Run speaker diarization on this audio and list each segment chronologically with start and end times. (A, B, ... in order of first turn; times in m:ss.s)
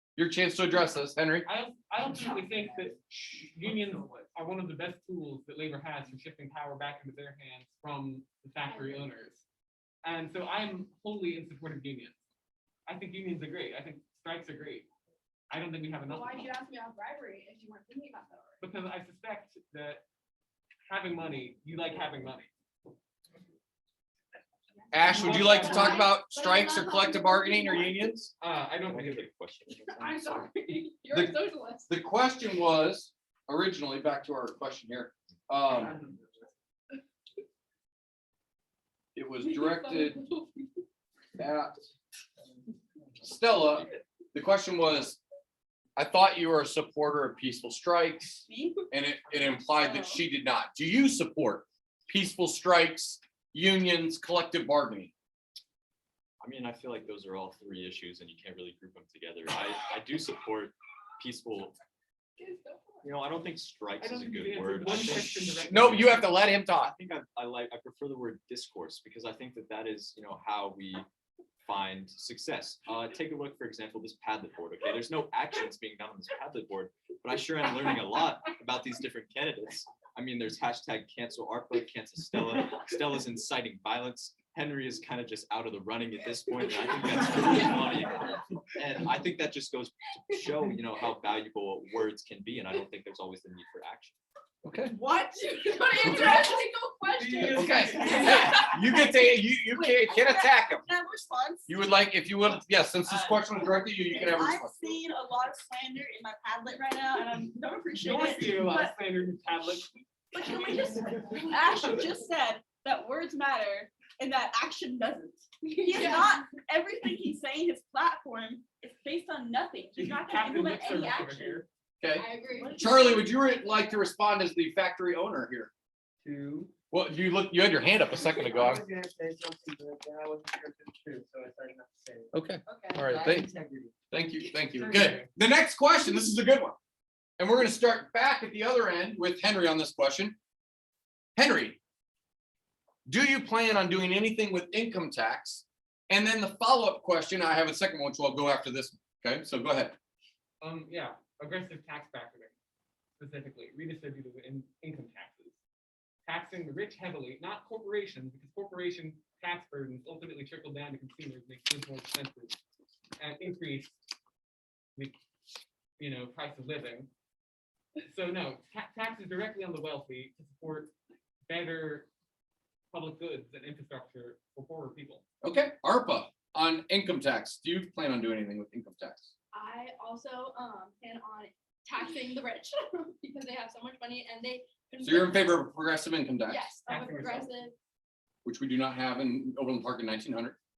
0:00.2-0:01.5 A
0:01.5-0:09.4 B
0:02.0-0:04.3 C
0:08.7-0:09.1 D
0:10.0-0:12.2 B
0:12.9-0:14.9 B
0:15.5-0:16.4 B
0:16.1-0:18.6 D
0:18.6-0:20.0 B
0:20.9-0:22.5 B
0:24.9-0:28.3 A
0:25.0-0:28.2 D
0:25.1-0:26.1 B
0:28.4-0:29.3 B
0:28.8-0:30.5 E
0:29.7-0:31.9 D
0:31.1-0:36.0 A
0:35.7-0:36.2 C
0:39.2-0:40.2 A
0:39.4-0:40.8 D
0:41.4-0:41.8 A
0:43.2-0:45.2 A
0:43.6-0:43.9 E
0:46.0-0:55.1 A
0:48.5-0:48.9 F
0:49.4-0:50.2 F
0:56.4-1:01.8 E
1:02.4-1:03.1 D
1:03.0-1:06.0 E
1:04.0-1:06.4 B
1:05.7-1:06.9 A
1:06.7-1:11.1 E
1:11.6-1:34.2 E
1:34.6-1:34.9 A
1:34.9-1:36.5 F
1:35.2-1:38.9 D
1:37.2-1:38.5 C
1:37.5-1:40.8 A
1:38.2-1:41.8 F
1:41.7-1:44.8 A
1:43.0-1:49.0 F
1:48.0-1:51.4 B
1:50.4-2:01.6 F
1:55.6-1:56.4 D
2:00.0-2:01.7 B
2:02.0-2:05.7 A
2:02.2-2:03.5 D
2:02.6-2:03.3 F
2:06.2-2:06.7 C
2:06.9-2:08.8 A
2:08.1-2:12.3 C
2:12.3-2:13.5 A
2:12.7-2:13.0 F
2:13.0-2:13.9 C
2:14.1-2:16.8 A
2:14.8-2:15.2 B
2:17.4-2:20.4 A
2:21.4-2:21.8 A
2:23.1-2:30.0 A
2:30.6-2:32.5 B
2:33.2-2:35.6 B
2:36.3-2:42.6 B
2:43.2-2:44.0 B
2:46.0-2:47.1 B
2:48.0-2:51.0 B
2:51.5-2:52.1 B
2:52.9-2:55.2 B
2:55.4-2:59.3 A
2:59.5-3:05.6 D
3:05.0-3:06.7 A
3:06.5-3:07.8 D
3:06.9-3:07.5 B
3:08.4-3:10.6 A